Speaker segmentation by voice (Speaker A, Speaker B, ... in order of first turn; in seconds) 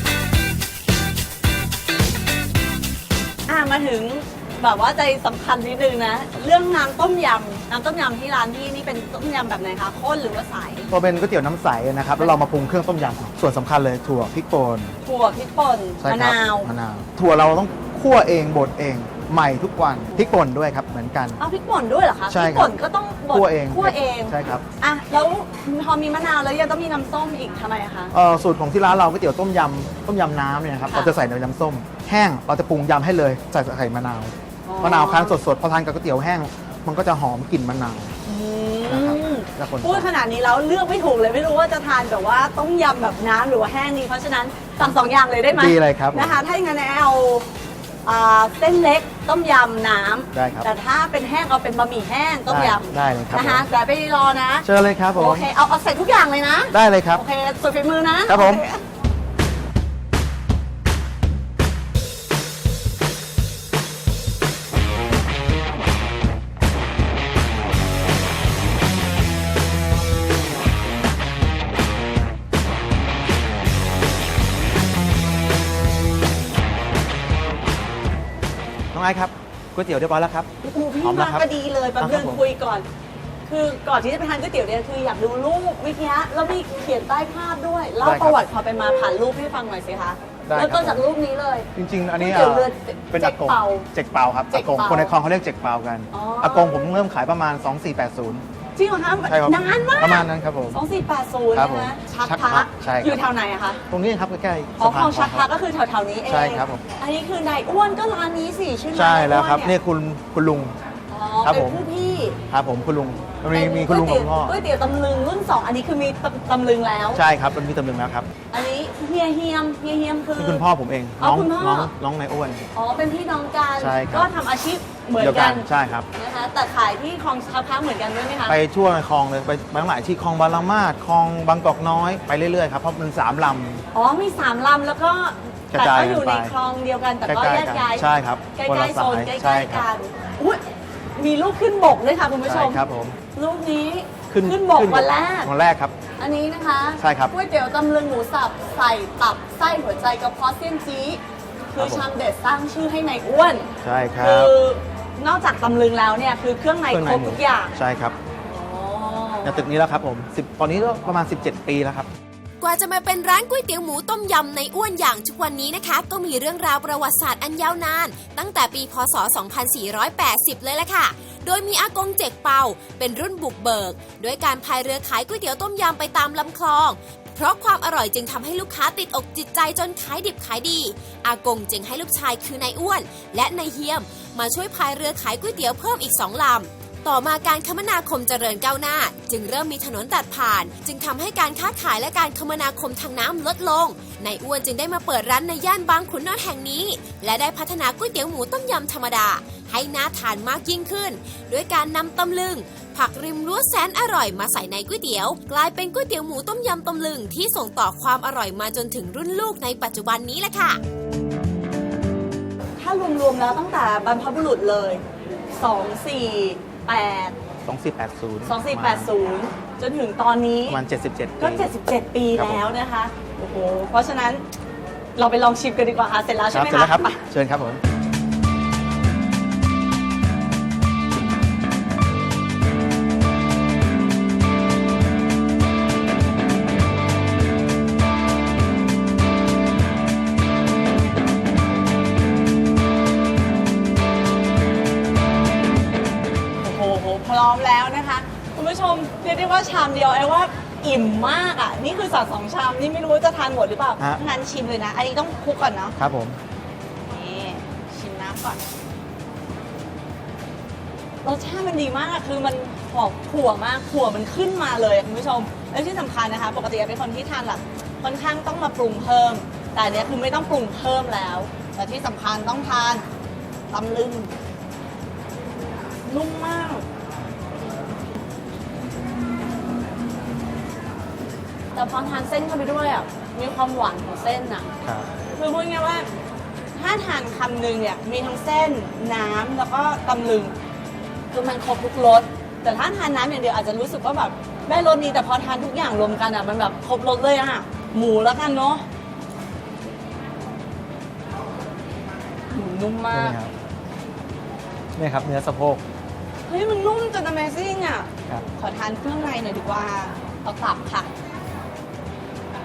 Speaker A: 3.5-10.9, 15.0-16.7, 20.1-20.4, 21.4-28.1, 30.9-31.1, 34.6-35.4, 38.2-47.5, 48.0-58.8, 80.6-82.9, 83.5-93.9, 94.5-95.1, 96.1-96.8, 98.8-103.8, 104.8-109.7, 111.1-112.4, 113.5-117.2, 118.5-120.6, 121.2-121.9, 122.7-128.6, 133.9-140.6, 141.2-142.8, 143.3-145.5, 146.2-151.2, 151.7-153.7, 154.2-157.8, 158.5-159.7, 212.8-217.4, 218.4-220.8, 221.4-224.4, 225.2-227.2, 246.6-256.0, 257.1-258.6, 261.2-273.1, 273.7-274.3, 276.0-276.9, 281.7-284.7, 285.3-286.1, 286.8-290.6, 291.3-298.9, 302.5-303.4, 306.5-311.1
Speaker B: 10.9-14.9, 16.0-21.4, 22.3-22.8, 23.3-24.6, 28.1-38.1, 38.9-40.1, 45.5-46.4, 50.3-50.7, 52.5-53.6, 54.6-55.5, 56.7-57.2, 58.3-58.6, 78.9-81.4, 82.0-82.4, 88.0-88.4, 90.4-91.0, 91.7-98.4, 99.2-100.8, 101.5-103.2, 103.9-105.5, 106.3-106.8, 108.9-110.8, 111.4-111.8, 112.5-114.6, 117.1-118.3, 120.4-122.7, 123.8-124.3, 125.2-126.1, 128.5-133.8, 135.7-136.5, 137.2-139.9, 142.4-143.2, 144.3-145.9, 147.0-147.3, 151.8-152.1, 153.8-154.5, 156.9-158.2, 159.4-162.1, 217.6-219.1, 220.7-221.7, 222.3-222.8, 226.5-227.8, 256.0-256.4, 284.8-285.1, 303.1-303.5, 304.9-305.8
Speaker C: 162.6-210.8